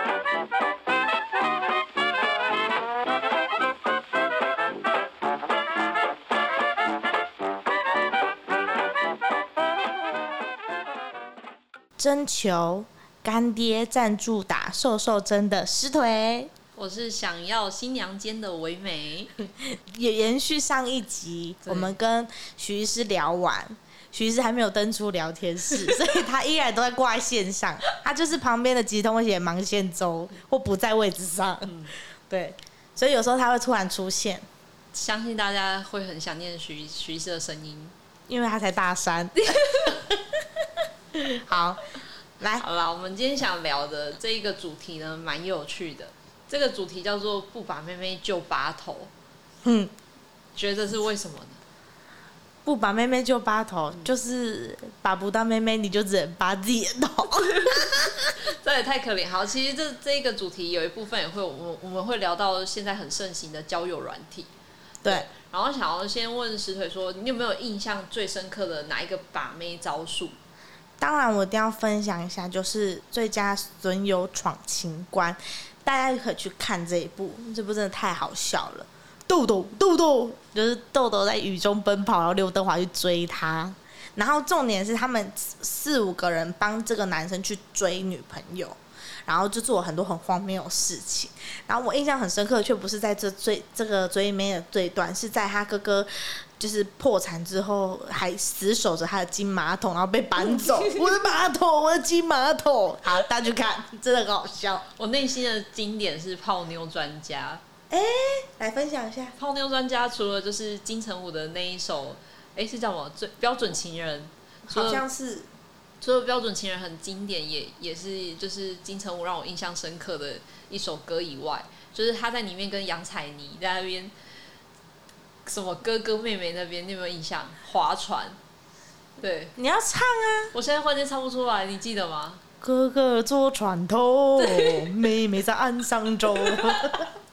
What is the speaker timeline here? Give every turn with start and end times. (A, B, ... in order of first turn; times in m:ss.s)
0:12.0-0:16.5 A
0:16.8-0:19.4 B
0:19.6-0:31.8 A
0:21.6-0:21.9 B
0:31.7-0:31.9 B
0:32.3-0:34.4 A
0:34.9-0:37.9 B
0:38.3-0:40.0 A
0:39.4-0:40.0 B
0:41.1-0:41.8 A
0:42.6-0:49.1 B
0:49.6-0:49.9 A
0:50.6-0:51.6 B
0:52.6-0:58.3 A
0:57.4-1:04.5 B
1:05.0-1:10.4 B
1:11.0-1:44.8 A
1:40.4-1:41.1 B
1:45.0-1:47.6 B
1:47.9-1:49.4 A
1:49.4-1:55.0 B
1:54.7-1:55.5 A
1:56.0-2:04.1 B
2:05.5-2:08.4 B
2:09.2-2:09.5 B
2:09.6-2:10.5 A
2:10.5-2:12.4 B
2:12.6-2:17.1 A
2:14.4-2:15.0 B
2:16.5-2:16.8 B